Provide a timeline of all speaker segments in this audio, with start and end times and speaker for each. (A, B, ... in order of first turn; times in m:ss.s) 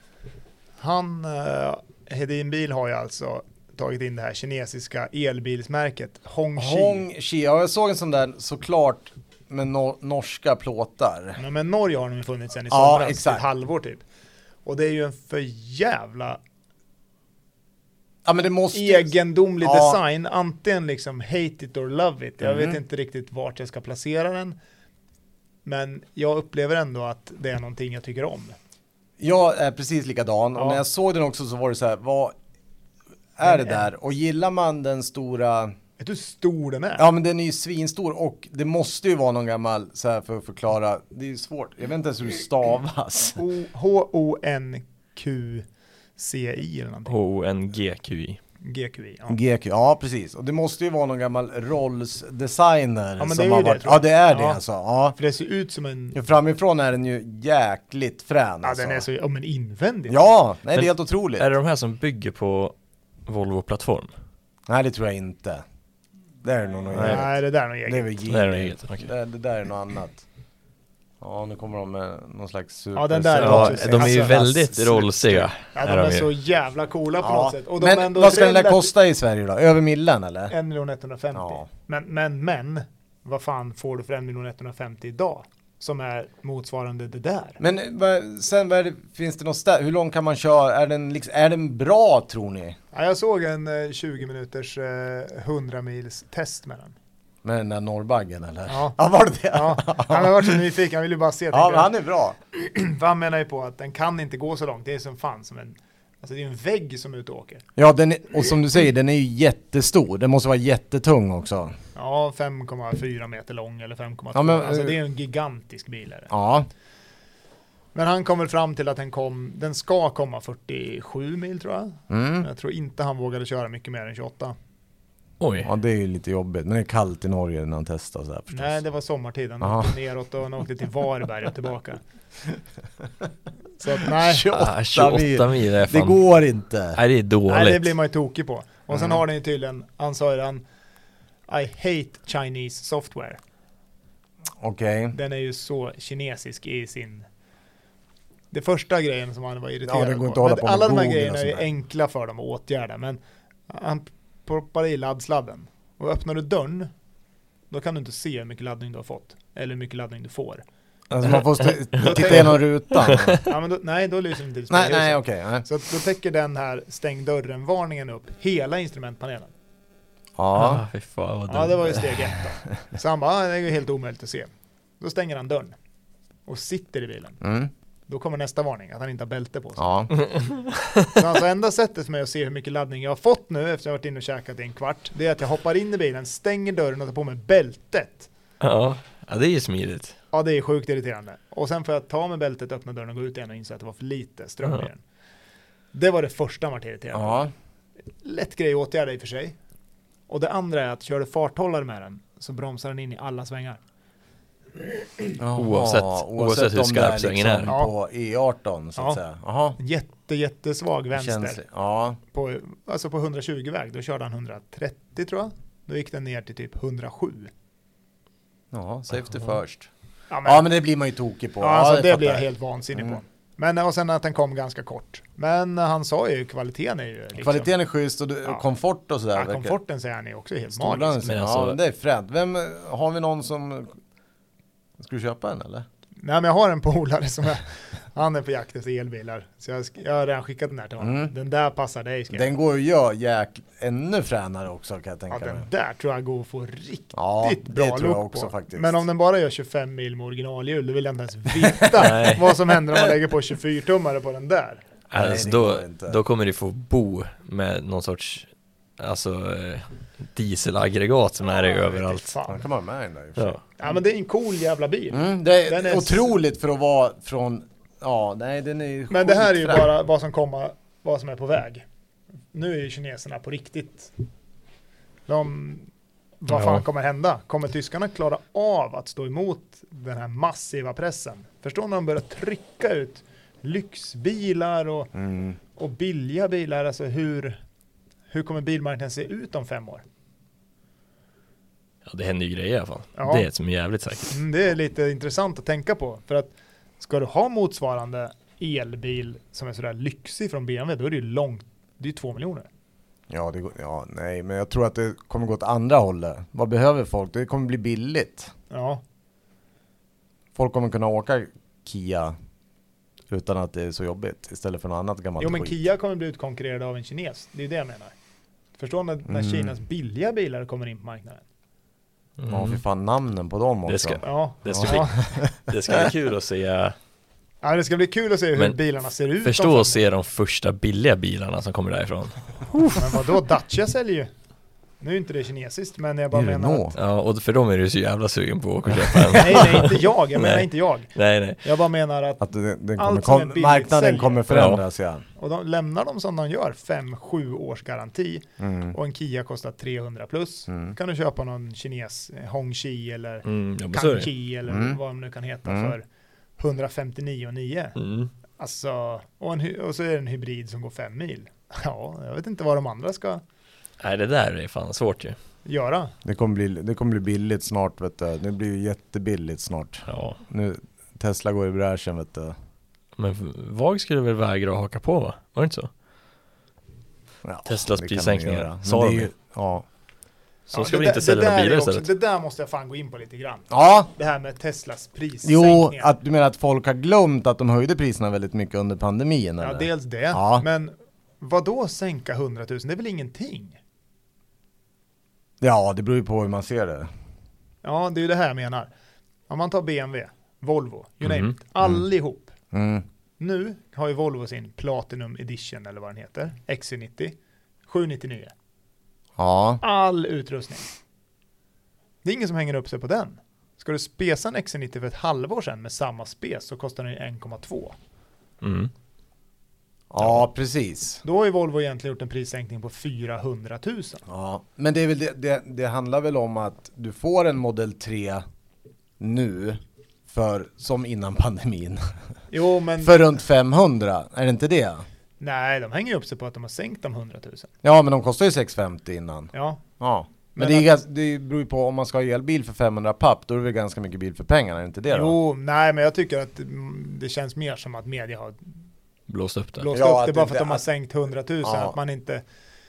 0:00.8-0:07.0 A
0:06.6-0:11.4 B
0:11.4-0:14.0 A
0:12.7-0:13.4 B
0:14.6-0:16.4 A
0:18.2-0:19.1 B
0:18.7-0:24.6 A
0:19.6-0:20.0 B
0:22.4-0:22.8 B
0:25.6-0:28.6 A
0:29.2-0:32.4 B
0:30.6-0:30.8 A
0:33.4-0:35.8 B
0:33.4-0:33.9 A
0:36.0-0:37.1 A
0:37.0-0:43.4 B
0:43.4-0:45.6 A
0:46.2-0:47.1 A
0:47.1-0:48.4 C
0:48.6-0:49.4 A
0:49.3-0:55.2 B
0:53.2-0:54.6 A
0:55.1-0:56.2 A
0:56.1-0:59.0 B
0:58.6-1:00.2 A
1:00.1-1:01.5 B
1:00.7-1:02.7 C
1:03.2-1:04.1 C
1:04.7-1:05.6 B
1:06.4-1:10.2 B
1:06.9-1:08.1 A
1:08.3-1:09.1 C
1:11.2-1:15.5 B
1:13.0-1:14.6 A
1:13.4-1:16.3 C
1:15.8-1:18.9 A
1:17.2-1:20.5 B
1:20.5-1:27.6 A
1:21.4-1:21.7 B
1:27.6-1:32.8 B
1:32.9-1:37.0 A
1:37.4-1:40.6 B
1:38.7-1:39.0 A
1:39.5-1:41.9 A
1:41.5-1:42.4 B
1:42.5-1:47.6 A
1:47.8-1:51.8 B
1:52.0-1:56.3 A
1:54.3-1:55.0 B
1:56.3-1:56.7 B
1:58.0-2:04.6 A
2:02.1-2:02.5 B
2:05.4-2:05.7 C
2:05.6-2:08.8 B
2:08.5-2:12.0 A
2:09.6-2:09.9 B
2:13.8-2:14.6 A
2:14.1-2:17.0 B
2:14.5-2:16.2 C
2:17.0-2:17.9 C
2:17.5-2:20.6 A
2:18.9-2:19.2 B
2:21.5-2:23.4 A
2:24.6-2:25.1 B
2:25.1-2:27.3 A
2:28.5-2:36.9 A
2:29.8-2:31.7 B
2:37.7-2:40.6 A
2:41.1-2:43.4 B
2:42.0-2:42.6 A
2:42.0-2:43.4 C
2:43.4-2:49.5 A
2:44.7-2:45.6 B
2:50.4-2:50.8 B
2:50.6-2:52.1 C
2:51.5-2:55.8 A
2:56.5-2:57.4 A
2:57.4-2:57.7 B
2:58.1-2:59.9 A
2:59.8-3:00.1 B
3:00.3-3:01.1 C
3:01.1-3:08.3 A
3:08.6-3:10.1 C
3:10.3-3:15.0 A
3:15.9-3:17.4 A
3:17.1-3:17.5 B
3:18.2-3:19.6 A
3:20.3-3:23.8 A
3:25.4-3:29.8 B
3:25.6-3:27.7 C
3:29.8-3:31.6 A
3:31.1-3:32.2 B
3:32.3-3:37.5 A
3:38.7-3:39.9 B
3:40.3-3:40.7 A
3:40.4-3:43.2 B
3:41.6-3:47.7 A
3:47.4-3:49.8 B
3:49.4-3:51.3 A
3:50.8-3:54.0 B
3:51.2-3:51.8 C
3:55.0-3:55.9 B
3:56.2-4:02.5 A
4:01.0-4:01.3 B
4:02.3-4:05.6 B
4:05.3-4:14.8 A
4:07.1-4:09.0 B
4:11.5-4:12.4 B
4:12.0-4:12.4 C
4:15.1-4:18.5 C
4:15.1-4:16.2 B
4:19.0-4:22.3 C
4:21.6-4:22.6 A
4:22.5-4:23.6 B
4:23.8-4:26.3 A
4:25.1-4:29.9 B
4:29.1-4:31.8 A
4:32.5-4:34.1 A
4:35.3-4:35.9 A
4:36.4-4:45.1 A
4:36.5-4:36.8 C
4:45.1-4:45.6 B
4:45.8-4:47.6 A
4:48.3-4:50.0 A
4:52.1-4:54.4 C
4:53.2-4:53.5 A
4:54.3-5:02.7 A
5:03.3-5:08.5 B
5:08.7-5:09.0 A
5:10.6-5:12.4 B
5:13.3-5:15.8 B
5:15.4-5:18.1 A
5:18.8-5:21.4 A
5:19.3-5:19.7 B
5:22.4-5:22.8 C
5:22.5-5:26.1 B
5:23.9-5:27.0 C
5:24.2-5:25.2 A
5:27.6-5:30.0 A
5:29.4-5:33.2 C
5:32.9-5:34.3 A
5:35.0-5:37.0 A
5:36.3-5:37.0 B
5:37.0-5:41.6 C
5:39.3-5:41.1 A
5:41.6-5:42.4 A
5:42.4-5:45.2 B
5:43.0-5:44.4 A
5:44.5-5:44.8 C
5:45.4-5:56.0 A
5:48.6-5:49.0 B
5:50.7-5:51.0 B
5:53.4-5:54.3 C
5:54.7-5:55.0 B
5:55.6-5:56.0 B
5:56.6-5:58.0 A
5:58.0-5:58.3 C
5:58.6-6:03.4 A
6:04.0-6:05.4 C
6:05.6-6:06.1 A
6:06.2-6:12.6 B
6:10.1-6:10.4 C
6:13.2-6:15.9 C
6:17.4-6:19.8 B
6:17.7-6:19.3 C
6:20.7-6:22.1 C
6:20.7-6:26.1 A
6:23.7-6:24.1 B
6:25.4-6:30.6 B
6:29.6-6:33.8 A
6:35.6-6:37.1 B
6:37.8-6:38.9 A
6:39.5-6:42.5 A
6:41.2-6:41.5 C
6:42.7-6:43.0 B
6:43.4-6:47.4 A
6:47.9-6:48.5 A
6:49.4-6:49.8 B
6:49.8-6:50.8 A
6:52.2-6:58.0 A
6:58.6-6:58.9 C
7:00.1-7:01.2 B
7:01.2-7:04.2 A
7:04.3-7:08.4 B
7:09.2-7:12.0 B
7:12.5-7:13.2 A
7:13.0-7:15.0 B
7:15.4-7:17.7 A
7:17.8-7:25.4 B
7:19.5-7:19.8 A
7:20.5-7:20.9 A
7:25.1-7:28.8 A
7:29.3-7:29.9 C
7:29.8-7:32.4 A
7:29.9-7:30.8 B
7:31.6-7:32.0 B